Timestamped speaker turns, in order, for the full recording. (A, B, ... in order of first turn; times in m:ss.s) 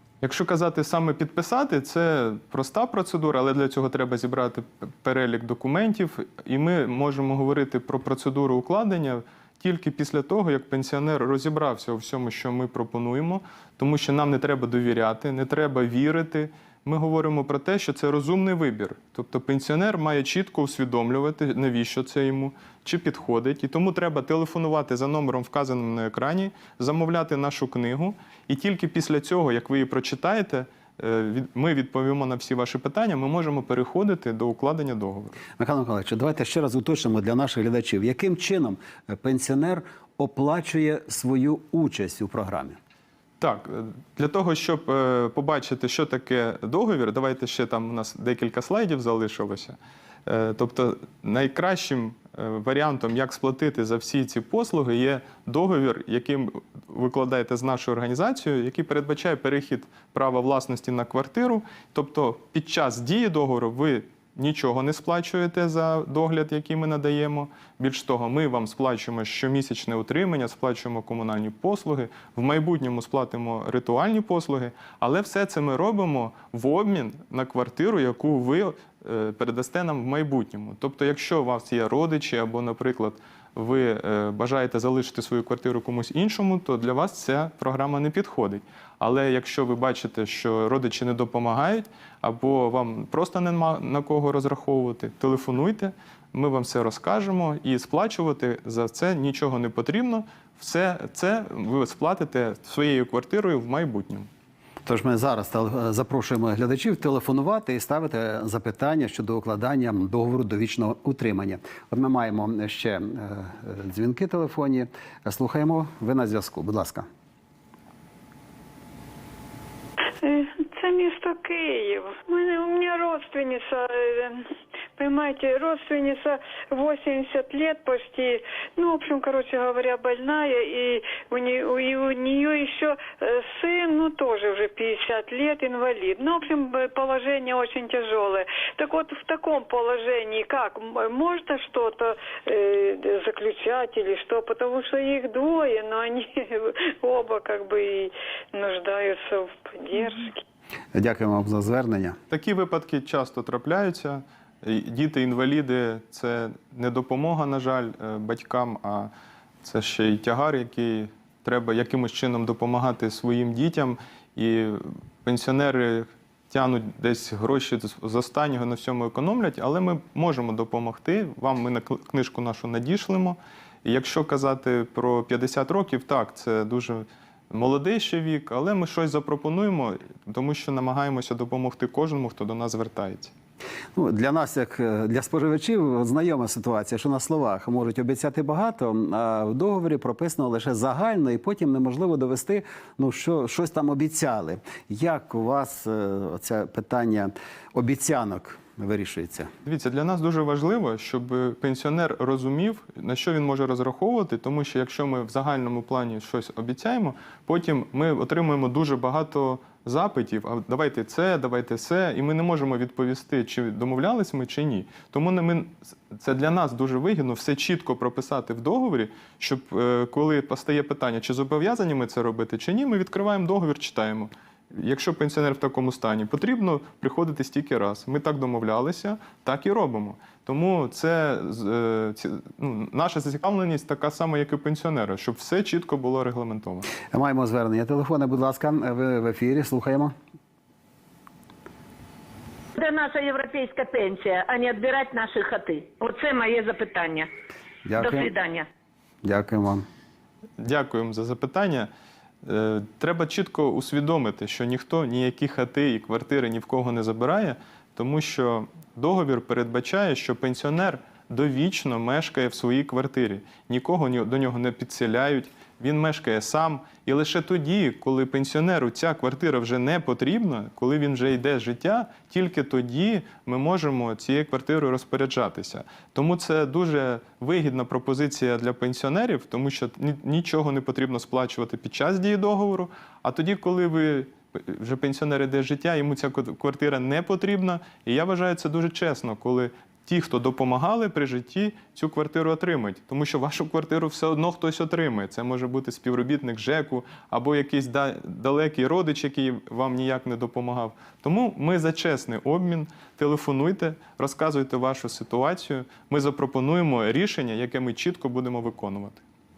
0:00.2-0:35.4 A
0:35.6-0:42.8 B
0:43.4-1:44.3 A
1:44.9-1:57.1 B
2:00.2-2:04.4 C
2:05.0-2:30.4 C
2:30.9-2:32.2 B
2:32.3-2:39.1 A
2:39.6-3:03.3 A
3:04.0-3:19.5 B
3:19.6-3:56.9 A
3:57.1-4:00.2 B
4:02.8-4:07.3 D
4:07.9-4:08.3 B
4:08.0-4:08.7 D
4:09.2-4:09.9 B
4:10.6-4:11.9 A
4:12.4-5:09.2 A